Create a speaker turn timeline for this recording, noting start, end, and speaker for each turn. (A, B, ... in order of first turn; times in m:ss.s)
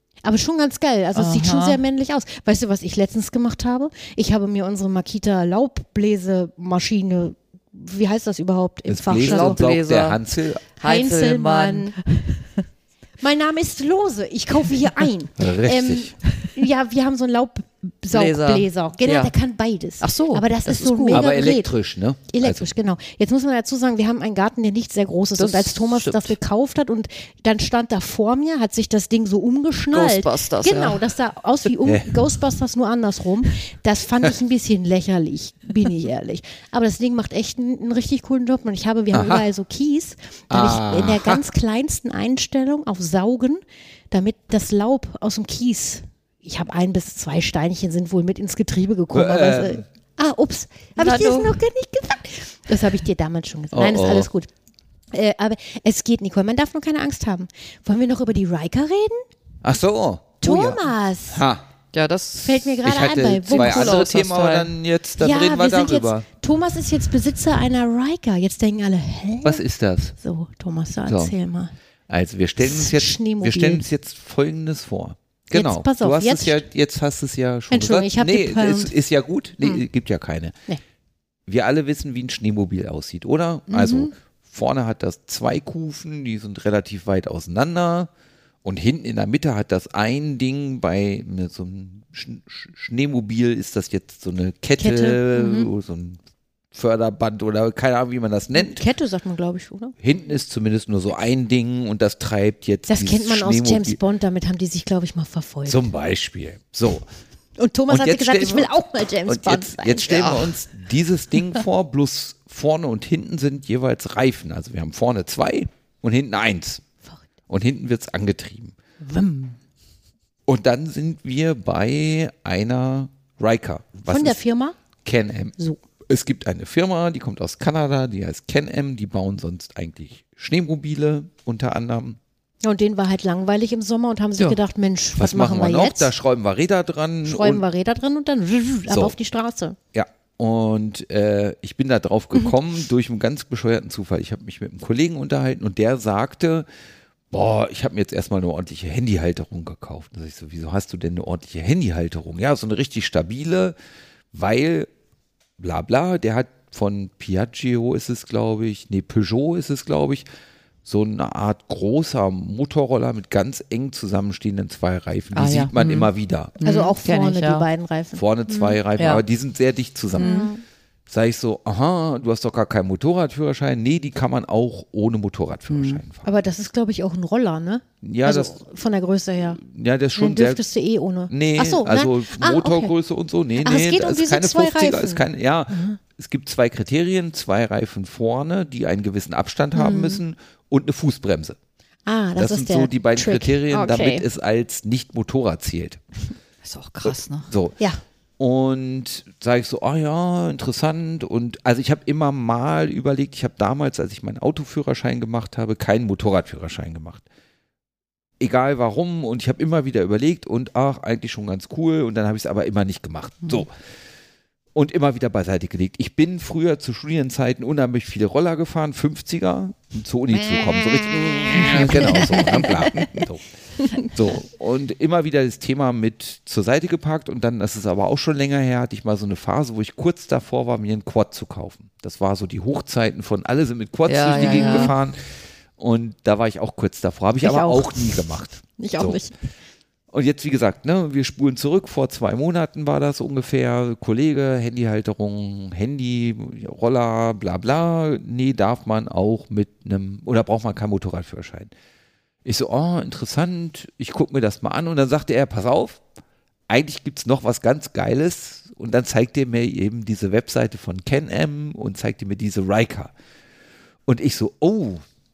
0:00.2-0:09.6 A
0:01.2-0:01.8 B
0:08.9-0:10.6 C
0:09.2-0:12.6 B
0:10.8-0:12.0 A
0:13.2-0:21.7 A
0:15.4-0:16.1 C
0:18.1-0:19.3 B
0:20.0-0:21.3 B
0:21.1-0:22.7 C
0:22.3-0:54.5 A
0:25.4-0:26.4 B
0:29.9-0:31.0 B
0:39.1-0:39.5 C
0:40.5-0:41.4 C
0:49.1-0:49.8 C
0:51.0-0:51.6 B
0:53.7-0:54.3 C
0:55.1-0:59.2 A
0:59.6-1:01.6 C
1:00.4-1:01.4 A
1:01.9-1:02.8 B
1:02.4-1:04.1 A
1:02.8-1:06.3 C
1:03.5-1:04.7 B
1:05.2-1:09.6 A
1:09.4-1:10.1 C
1:10.2-1:11.7 A
1:11.1-1:11.3 C
1:12.1-1:20.6 C
1:12.6-1:13.9 A
1:15.5-1:16.6 A
1:17.7-1:18.9 A
1:21.5-1:28.1 C
1:23.7-1:24.1 A
1:28.6-1:36.2 C
1:34.8-1:35.7 A
1:36.7-1:38.8 C
1:38.5-1:40.0 A
1:40.0-1:44.0 C
1:42.9-1:45.9 A
1:45.7-1:47.1 C
1:47.6-1:50.1 A
1:47.9-1:56.8 C
1:50.1-1:50.5 B
1:57.5-1:58.8 C
1:59.0-1:59.6 A
2:00.5-2:04.4 C
2:04.1-2:04.8 A
2:05.0-2:05.6 C
2:06.1-2:12.2 C
2:12.6-2:16.1 A
2:15.2-2:17.6 C
2:17.2-2:19.8 A
2:18.9-2:19.2 C
2:19.9-2:26.7 C
2:27.3-2:33.8 C
2:34.3-2:34.9 C
2:35.6-2:40.3 C
2:40.8-2:46.6 C
2:45.3-2:47.7 B
2:46.6-2:48.8 A
2:48.2-2:50.4 C
2:49.0-2:49.2 B
2:50.1-2:50.5 B
2:50.1-2:50.6 A
2:51.1-2:56.2 C
2:55.7-2:56.0 B
2:56.2-2:59.6 A
2:58.0-2:58.6 C
2:59.6-3:00.6 C
3:00.2-3:02.9 A
3:01.3-3:11.6 C
3:03.6-3:06.0 A
3:09.8-3:10.2 A
3:12.1-3:14.3 A
3:12.4-3:16.0 C
3:16.6-3:17.5 B
3:17.0-3:17.8 C
3:18.4-3:27.2 C
3:28.4-3:33.7 C
3:34.8-3:43.4 C
3:40.4-3:43.2 A
3:41.7-3:43.0 B
3:43.8-3:44.1 A
3:44.0-3:55.2 C
3:54.1-3:54.9 B
3:54.3-3:54.9 A
3:55.8-3:59.2 C
3:57.4-3:58.2 A
3:58.8-3:59.3 A
4:00.1-4:11.7 C
4:12.4-4:16.0 C
4:16.7-4:23.1 C
4:24.1-4:25.0 C